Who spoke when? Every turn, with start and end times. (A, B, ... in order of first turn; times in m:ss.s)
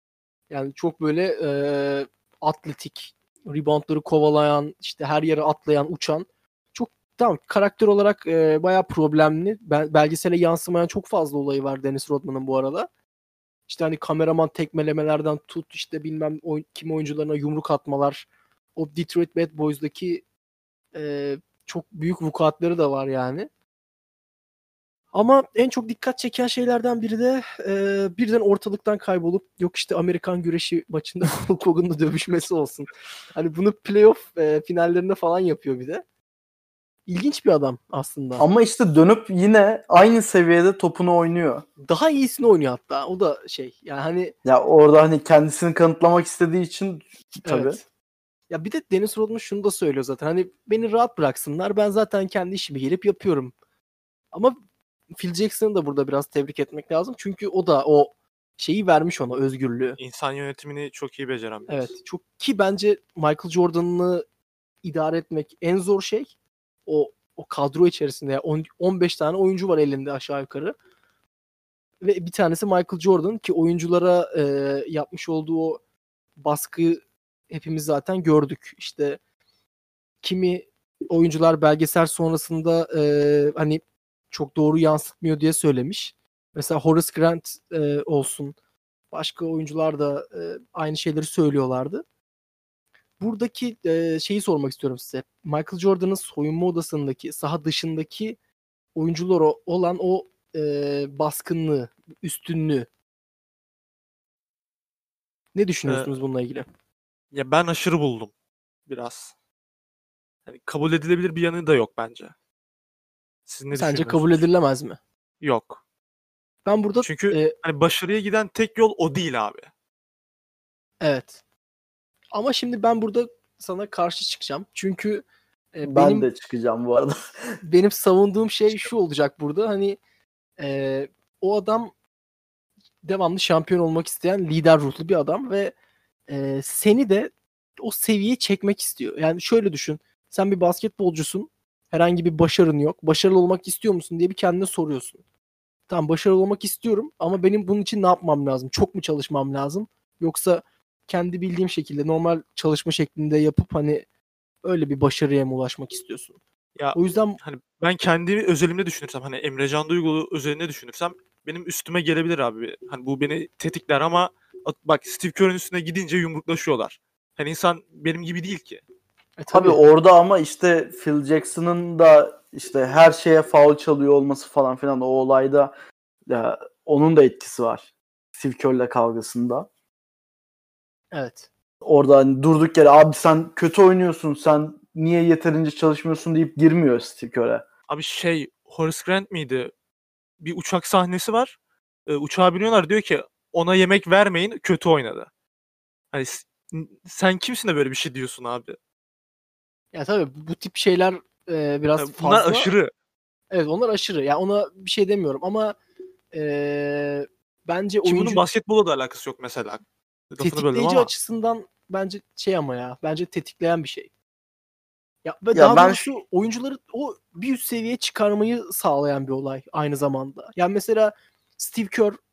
0:00.5-0:12.9 A
0:13.7-0:20.2 A
0:20.9-0:23.5 A
0:25.1-0:36.0 A
0:37.1-0:38.4 A
0:38.4-0:41.6 B
0:41.8-0:44.3 A
0:44.4-0:47.8 B
0:47.4-0:47.8 A
0:48.5-0:53.5 A
0:55.1-1:00.0 A
1:00.0-1:01.9 C
1:01.7-1:04.2 A
1:04.8-1:06.3 A
1:06.9-1:10.8 A
1:12.0-1:15.8 A
1:16.4-1:19.2 A
1:20.2-1:28.6 A
1:29.1-1:32.0 A
1:33.2-1:38.4 A
1:39.0-1:42.9 A
1:45.6-1:46.7 A
1:45.9-1:46.2 C
1:47.3-1:48.3 C
1:48.9-1:49.3 C
1:50.5-1:52.3 C
1:53.5-1:54.4 C
1:53.7-1:55.0 A
1:55.4-1:55.8 C
1:56.6-1:57.6 A
1:57.0-1:59.7 C
2:01.0-2:01.4 A
2:02.3-2:06.3 A
2:05.8-2:07.1 B
2:07.6-2:10.0 A
2:10.6-2:11.9 A
2:13.0-2:15.8 A
2:16.3-2:25.2 A
2:25.9-2:34.0 A
2:34.6-2:36.4 A
2:36.8-2:48.8 C
2:37.0-2:37.4 A
2:49.4-2:49.8 A
2:49.5-2:55.7 B
2:56.3-2:59.7 B
3:01.1-3:01.5 A
3:01.8-3:07.6 B
3:07.9-3:09.7 C
3:10.4-3:15.3 C
3:16.1-3:18.8 C
3:19.9-3:22.7 A
3:22.0-3:22.9 C
3:23.5-3:25.8 A
3:26.3-3:28.4 A
3:28.0-3:31.1 C
3:30.4-3:34.1 A
3:35.2-3:42.2 A
3:35.5-3:36.1 B